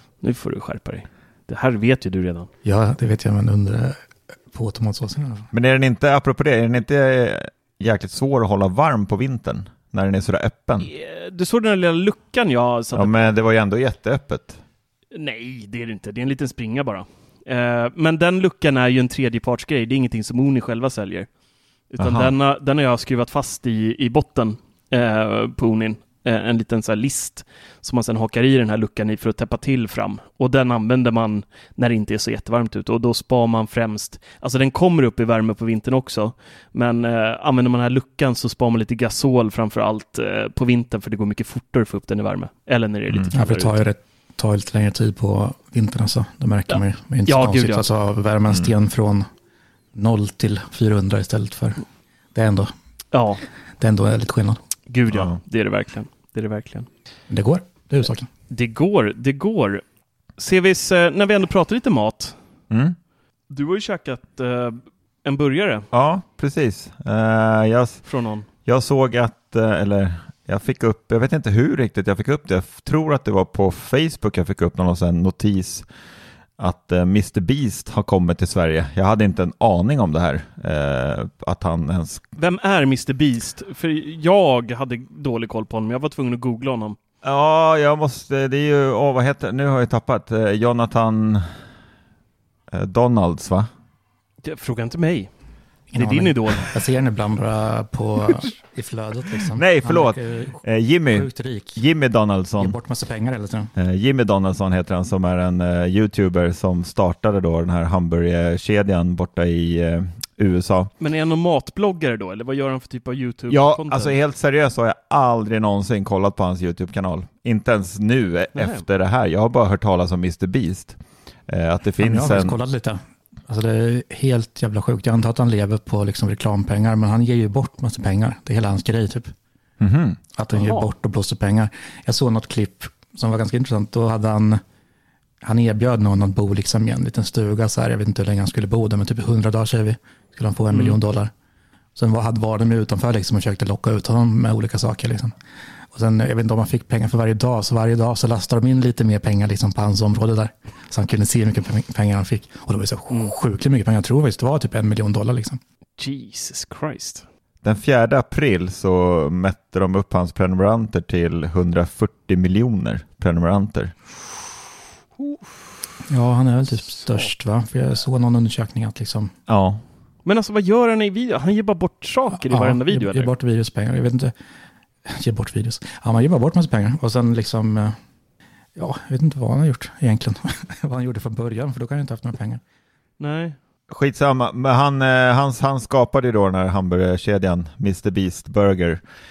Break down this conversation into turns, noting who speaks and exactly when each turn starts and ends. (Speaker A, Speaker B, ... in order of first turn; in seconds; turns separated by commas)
Speaker A: 0.2-2.5, Speaker B: 2.6-5.5, Speaker C: 5.5-10.9, Speaker A: 10.8-13.3, Speaker C: 12.9-14.6, Speaker A: 15.1-21.3, Speaker A: 21.9-43.8, Speaker C: 22.0-22.3, Speaker B: 43.3-49.3, Speaker A: 46.7-47.9, Speaker B: 49.9-51.8, Speaker B: 52.3-52.7, Speaker A: 53.1-53.4, Speaker B: 53.8-54.6, Speaker A: 54.9-56.9, Speaker C: 55.1-55.4, Speaker B: 57.3-58.3, Speaker A: 58.5-59.8, Speaker A: 60.4-62.4, Speaker C: 62.7-63.0, Speaker A: 63.5-65.9, Speaker C: 65.9-68.0, Speaker A: 68.0-68.5, Speaker C: 68.6-75.8, Speaker C: 76.6-82.2, Speaker A: 82.4-87.0, Speaker C: 87.2-91.5, Speaker C: 92.7-93.7, Speaker A: 94.4-95.3, Speaker B: 95.9-101.8, Speaker A: 96.0-96.7, Speaker C: 99.5-102.8, Speaker B: 102.6-103.7, Speaker C: 103.8-110.9, Speaker A: 111.0-114.1, Speaker C: 113.5-122.5, Speaker A: 118.5-118.8, Speaker B: 122.0-129.3, Speaker C: 129.8-130.2, Speaker B: 130.3-134.6, Speaker A: 130.5-130.8, Speaker B: 135.4-141.3, Speaker A: 140.7-141.0, Speaker B: 141.9-145.3, Speaker B: 145.9-155.6, Speaker A: 156.0-157.2, Speaker C: 157.6-163.9, Speaker A: 165.2-165.5, Speaker B: 166.1-169.3, Speaker C: 169.5-169.8, Speaker A: 170.2-173.3, Speaker B: 172.3-174.3, Speaker B: 175.0-178.0, Speaker B: 178.8-182.6, Speaker A: 183.2-183.6, Speaker C: 183.9-189.0